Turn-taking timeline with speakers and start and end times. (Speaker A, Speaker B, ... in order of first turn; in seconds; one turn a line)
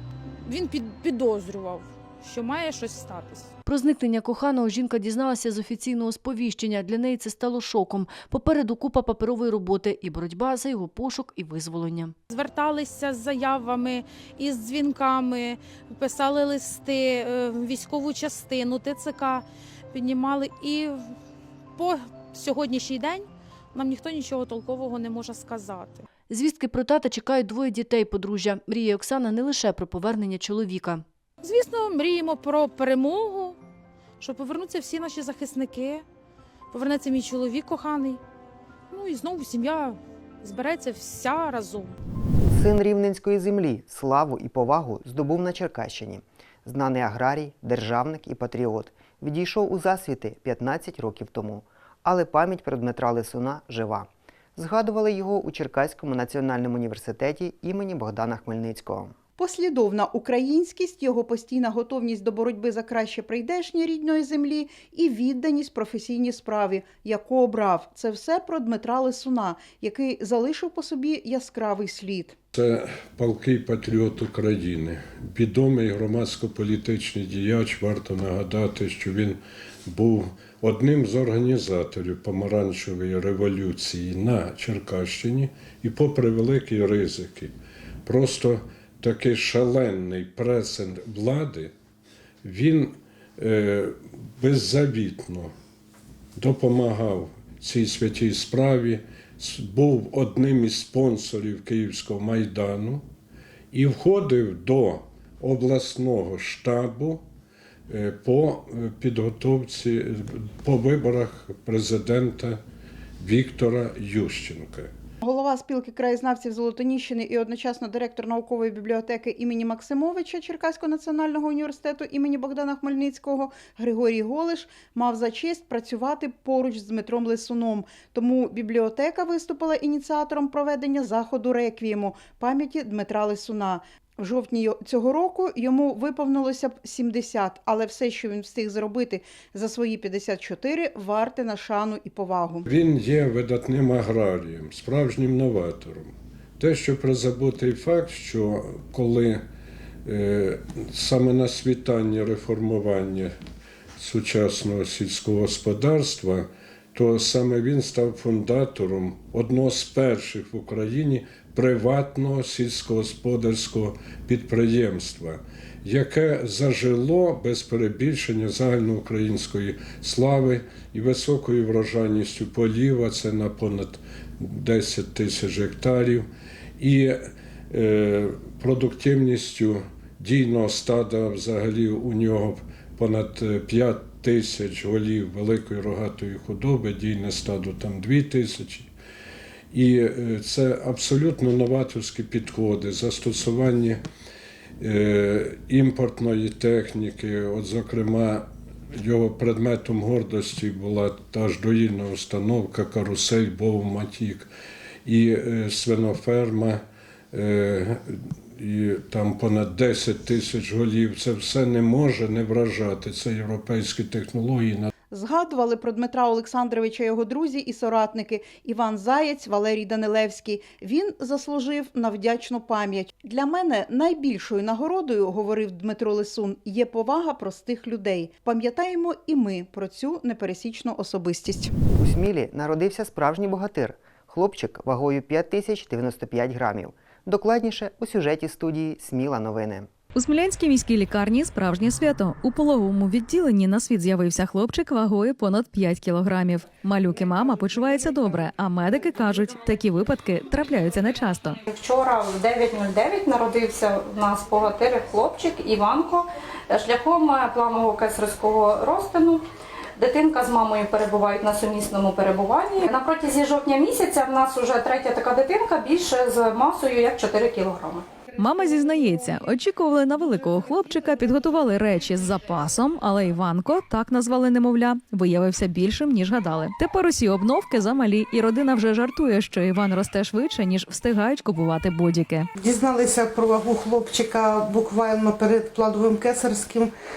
Speaker A: 0.4-3.5
Speaker B: 3.6-12.1
Speaker A: 12.3-20.9
Speaker A: 21.8-26.1
Speaker B: 26.3-31.0
Speaker A: 31.4-33.6
Speaker A: 34.2-36.0
Speaker A: 36.7-38.2
Speaker A: 38.9-41.9
Speaker C: 42.5-59.1
Speaker D: 59.4-72.3
Speaker E: 72.5-87.5
Speaker E: 88.0-91.7
Speaker E: 92.4-95.5
Speaker E: 96.4-103.0
Speaker E: 103.7-107.2
Speaker E: 107.9-112.6
Speaker E: 113.2-114.9
Speaker D: 115.2-142.6
Speaker E: 142.6-149.4
Speaker E: 150.1-153.3
Speaker E: 154.0-176.2
Speaker E: 176.8-177.2
Speaker E: 177.7-188.9
Speaker E: 189.7-194.0
Speaker E: 194.8-198.4
Speaker E: 199.0-204.5
Speaker E: 205.1-206.8
Speaker E: 207.3-208.0
Speaker E: 208.6-214.9
Speaker D: 215.1-231.7
Speaker C: 232.0-239.9
Speaker F: 240.2-251.6
Speaker G: 251.7-259.4
Speaker G: 260.0-268.1
Speaker F: 268.4-282.5
Speaker H: 282.6-286.9